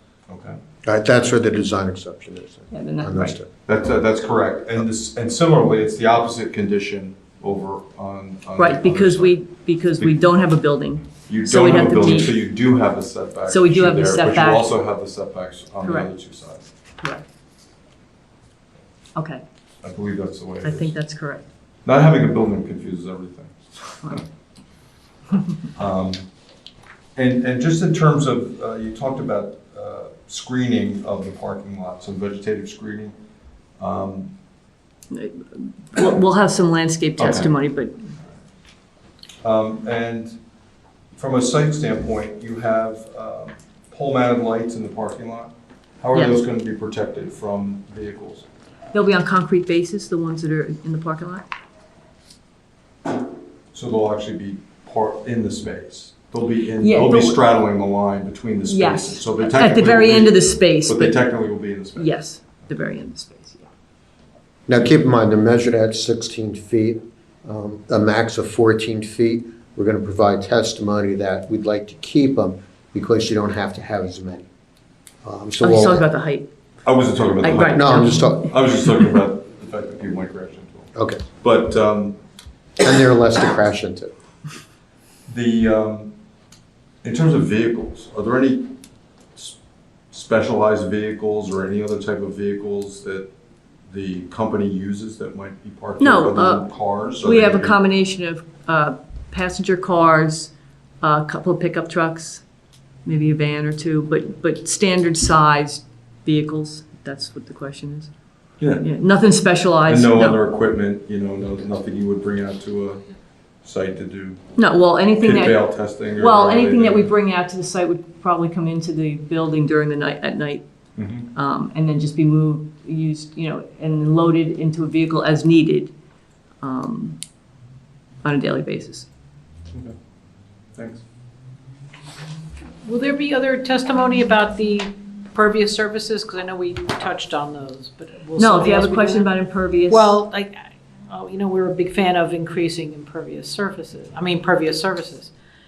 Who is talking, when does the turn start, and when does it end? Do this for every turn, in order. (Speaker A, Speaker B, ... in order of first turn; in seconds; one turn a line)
Speaker A: 0.3-0.6
Speaker B: 0.8-3.5
Speaker C: 2.7-3.4
Speaker A: 3.7-9.4
Speaker C: 8.6-12.4
Speaker A: 11.3-16.7
Speaker C: 13.5-14.7
Speaker C: 15.8-16.1
Speaker C: 19.1-19.4
Speaker A: 19.8-20.9
Speaker C: 20.6-21.4
Speaker A: 21.9-24.2
Speaker A: 25.8-26.2
Speaker A: 27.2-33.1
Speaker A: 33.8-34.3
Speaker C: 35.1-38.0
Speaker A: 37.2-37.5
Speaker A: 39.4-40.4
Speaker A: 41.1-48.5
Speaker C: 48.9-51.4
Speaker A: 53.7-62.2
Speaker C: 56.8-57.4
Speaker C: 58.6-61.2
Speaker C: 62.0-63.7
Speaker B: 64.7-74.5
Speaker B: 75.2-76.1
Speaker C: 75.6-76.5
Speaker A: 76.8-82.2
Speaker C: 77.4-78.5
Speaker B: 77.7-78.5
Speaker B: 81.0-81.2
Speaker B: 82.8-84.1
Speaker A: 85.3-86.1
Speaker A: 87.0-88.7
Speaker A: 90.1-93.3
Speaker A: 93.9-97.8
Speaker C: 96.0-102.4
Speaker C: 103.0-108.1
Speaker A: 108.6-108.9
Speaker C: 108.7-110.4
Speaker A: 109.9-113.0
Speaker A: 113.6-114.4
Speaker C: 114.6-120.7
Speaker A: 115.2-117.1
Speaker A: 121.0-121.3
Speaker C: 121.3-125.9
Speaker C: 126.6-127.2
Speaker C: 128.2-129.1
Speaker A: 130.8-131.0
Speaker D: 132.8-139.3
Speaker C: 138.4-140.2
Speaker D: 139.9-145.3